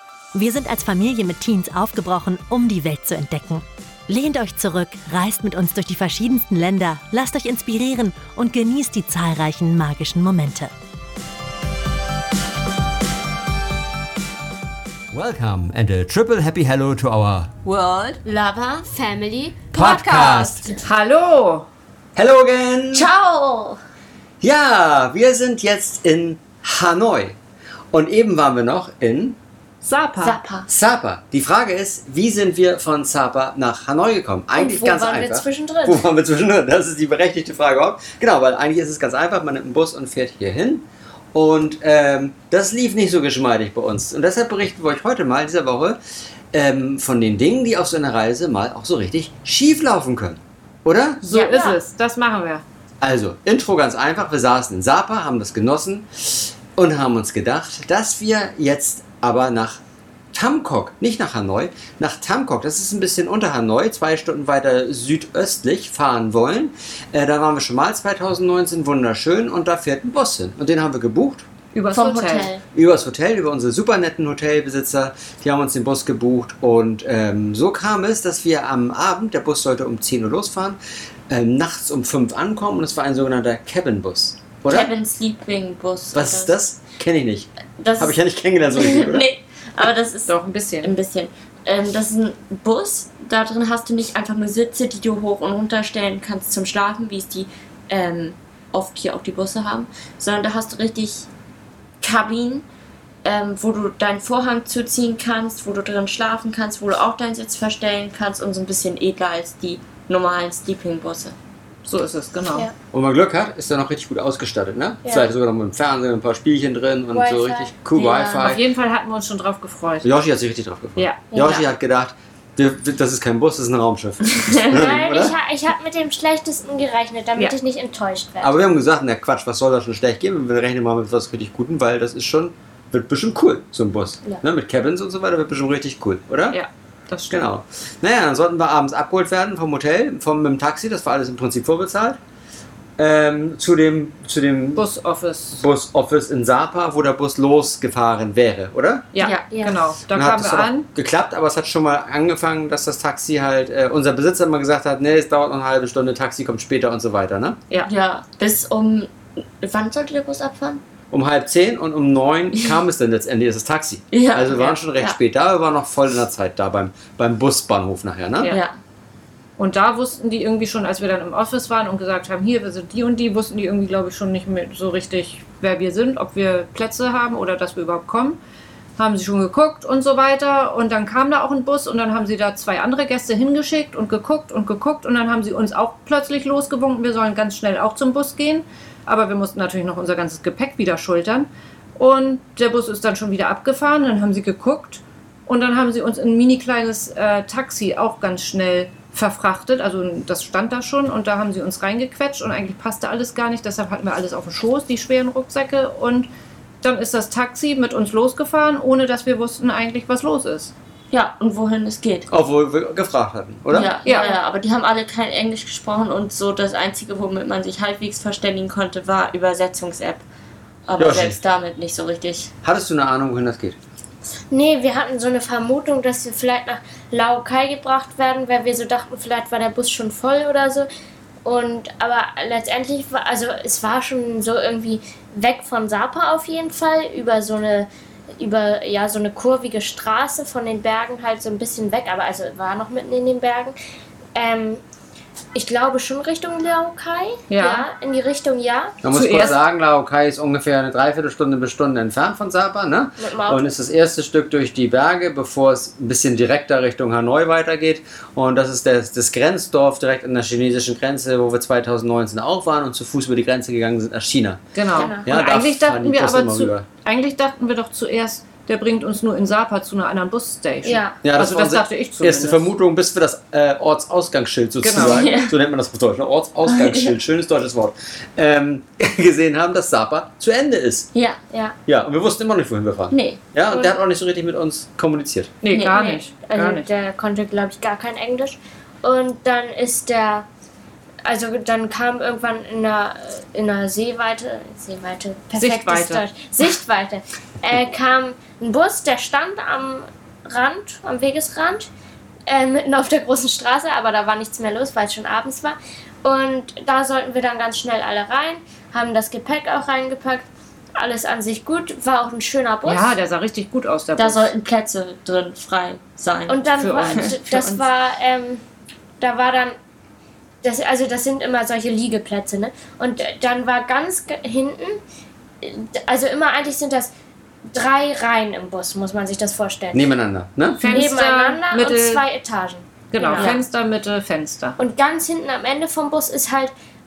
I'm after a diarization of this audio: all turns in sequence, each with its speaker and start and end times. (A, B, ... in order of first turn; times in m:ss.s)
0:00.3-0:10.7 A
0:15.1-0:17.6 B
0:17.6-0:18.8 C
0:18.8-0:20.7 D
0:19.7-0:20.8 B
0:19.9-0:20.4 C
0:20.8-0:21.7 E
0:22.2-0:23.1 B
0:22.9-0:23.8 C
0:24.4-0:27.4 B
0:27.9-0:29.4 B
0:29.8-0:30.4 E
0:30.2-0:30.7 C
0:30.7-0:46.0 B
0:34.6-0:36.0 D
0:46.5-0:51.2 B
0:51.2-0:52.6 E
0:51.3-0:51.7 C
0:51.4-0:51.8 D
0:53.0-0:59.8 B
1:00.3-1:11.5 B
1:11.7-1:12.5 E
1:11.9-1:12.6 C
1:12.7-1:20.8 B
1:21.3-1:24.9 B
1:24.7-1:26.6 C
1:26.1-1:29.3 B
1:27.8-1:28.2 C
1:28.7-1:41.3 C
1:30.3-1:30.9 E
1:42.0-1:42.6 C
1:43.2-1:51.4 C
1:51.8-1:52.7 E
1:52.9-1:58.6 B
1:57.1-1:57.7 D
1:58.0-1:58.5 C
1:58.1-2:00.1 E
2:00.0-2:05.3 B
2:01.0-2:01.4 E
2:01.3-2:01.6 D
2:04.3-2:04.7 C
2:04.7-2:08.6 D
2:08.4-2:16.6 B
2:16.5-2:17.5 E
2:17.3-2:22.2 B
2:23.0-2:24.9 B
2:24.8-2:25.6 E
2:25.6-2:29.1 B
2:29.1-2:30.8 E
2:29.2-2:29.5 C
2:29.5-2:29.8 D
2:30.1-2:37.6 B
2:37.8-2:40.8 C
2:41.1-2:48.6 B
2:44.1-2:45.2 C
2:49.6-2:58.4 E
2:59.0-3:26.3 E
3:26.8-3:30.7 E
3:31.1-3:32.3 C
3:32.3-3:34.0 B
3:33.7-3:40.2 C
3:34.0-3:34.4 E
3:40.9-3:42.5 C
3:41.0-3:41.4 B
3:42.6-3:43.8 B
3:44.5-3:50.9 D
3:51.4-4:03.8 D
4:04.4-4:04.8 D
4:05.6-4:09.5 D
4:07.5-4:07.9 E
4:09.0-4:24.7 B
4:09.1-4:09.6 E
4:13.2-4:13.7 D
4:24.8-4:32.7 E
4:24.9-4:25.3 D
4:25.2-4:26.9 B
4:30.8-4:31.2 D
4:31.2-4:41.1 B
4:34.8-4:35.3 E
4:35.0-4:35.5 C
4:36.7-4:37.2 C
4:41.1-4:41.4 C
4:41.9-4:45.6 B
4:43.1-4:43.4 C
4:45.6-4:46.8 E
4:45.7-4:46.2 C
4:45.8-4:50.5 D
4:51.2-5:01.9 D
4:55.6-4:56.2 E
5:02.5-5:13.1 D
5:12.9-5:14.5 E
5:14.2-5:17.8 C
5:16.5-5:18.6 D
5:16.8-5:17.3 E
5:19.2-5:19.8 D
5:20.6-5:25.0 D
5:25.6-5:27.1 D
5:27.7-5:30.1 D
5:29.9-5:31.0 B
5:30.8-5:32.2 E
5:30.8-5:33.6 D
5:33.1-5:34.8 E
5:33.4-5:33.6 C
5:34.8-5:36.7 D